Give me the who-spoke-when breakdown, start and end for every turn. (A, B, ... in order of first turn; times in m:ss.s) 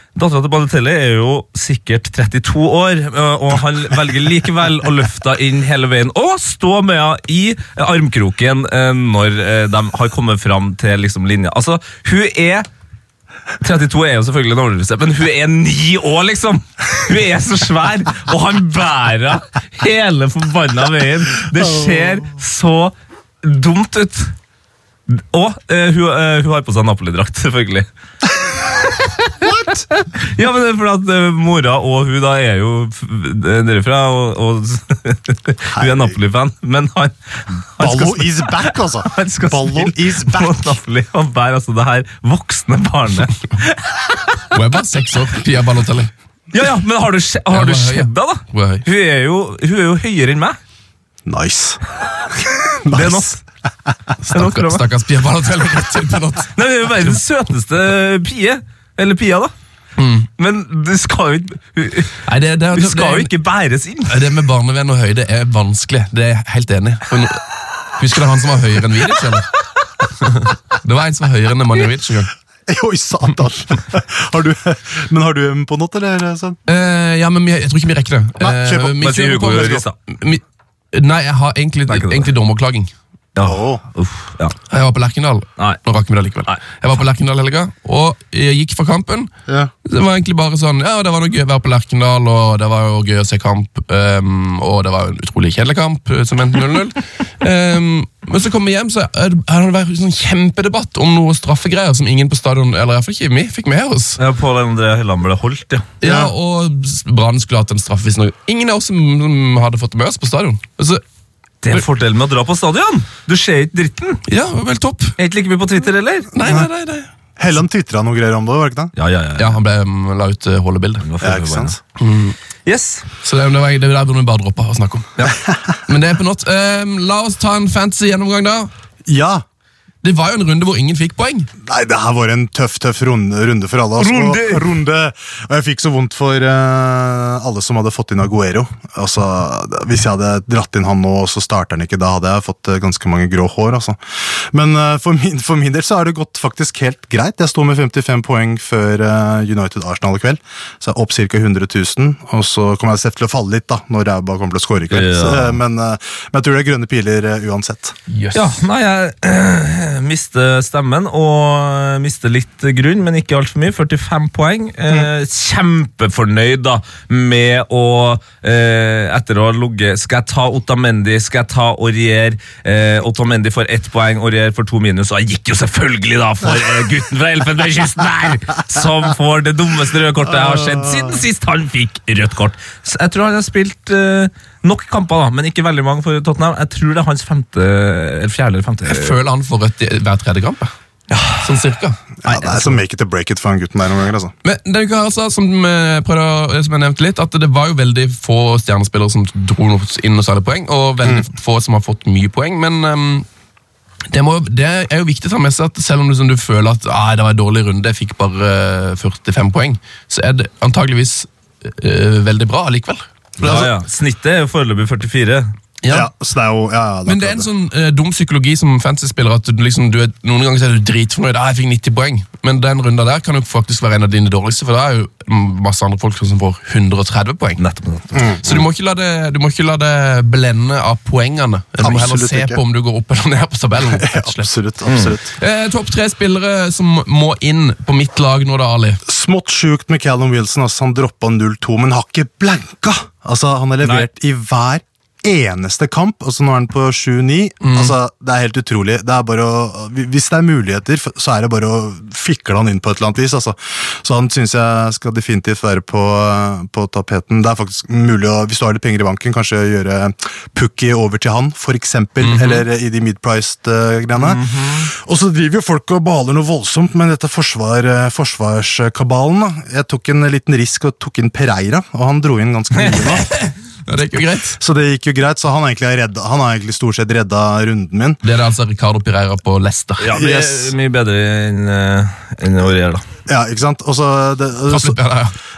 0:00.2-0:12.7 A
0:13.6-0:24.3 A
0:21.8-0:22.2 B
0:25.1-0:27.9 A
0:28.8-0:29.3 A
0:29.4-0:29.9 B
0:29.9-0:44.5 A
0:35.7-0:36.2 B
0:37.8-0:40.8 B
0:44.5-0:46.1 C
0:46.5-0:50.6 A
0:47.5-0:48.9 C
0:51.3-0:51.8 B
0:52.8-0:53.4 B
0:52.9-0:53.4 A
0:54.2-0:57.2 C
0:54.4-0:54.9 A
0:56.6-0:59.5 A
1:00.0-1:00.3 C
1:00.4-1:04.3 A
1:02.3-1:03.3 C
1:04.1-1:07.4 C
1:08.0-1:09.5 C
1:10.0-1:12.3 C
1:12.7-1:16.6 B
1:16.7-1:20.4 C
1:18.4-1:19.9 B
1:19.0-1:20.0 A
1:20.9-1:22.9 C
1:21.9-1:22.3 A
1:23.4-1:24.6 A
1:23.4-1:23.8 B
1:24.7-1:29.3 C
1:29.8-1:44.2 C
1:44.2-1:46.0 A
1:46.0-1:51.0 C
1:46.0-1:46.3 B
1:51.6-1:54.2 A
1:54.3-1:55.2 C
1:55.2-1:56.3 A
1:56.3-1:57.1 C
1:56.4-1:56.7 B
1:57.4-1:58.9 B
1:59.0-1:59.6 A
1:59.4-2:01.0 C
2:01.0-2:01.8 A
2:01.2-2:01.8 B
2:02.0-2:02.4 C
2:02.6-2:03.2 A
2:03.2-2:05.3 C
2:05.9-2:08.7 C
2:09.1-2:09.4 B
2:10.0-2:11.5 C
2:11.6-2:24.0 B
2:14.0-2:14.7 A
2:24.5-2:38.0 B
2:34.9-2:35.6 A
2:38.1-2:38.6 C
2:38.3-3:09.2 A
3:08.9-3:10.7 C
3:11.1-3:11.6 A
3:11.4-3:12.8 C
3:12.2-3:14.3 B
3:14.4-3:23.3 C
3:24.1-3:33.7 C
3:33.4-3:35.5 A
3:35.8-3:36.1 C
3:35.9-3:37.5 B
3:37.1-3:47.6 C
3:47.6-3:48.3 A
3:48.1-3:48.6 B
3:48.4-3:59.0 C
3:51.8-3:52.6 B
3:53.8-3:55.3 B
3:59.1-4:33.3 B
4:03.8-4:04.1 A
4:07.6-4:07.9 C
4:22.2-4:22.6 C
4:24.2-4:24.9 A
4:32.8-4:33.1 A
4:33.3-4:34.6 C
4:34.5-4:38.2 B
4:38.2-4:40.1 C
4:40.0-4:43.0 A
4:40.1-4:40.8 B
4:43.3-4:45.0 B
4:44.7-4:45.4 C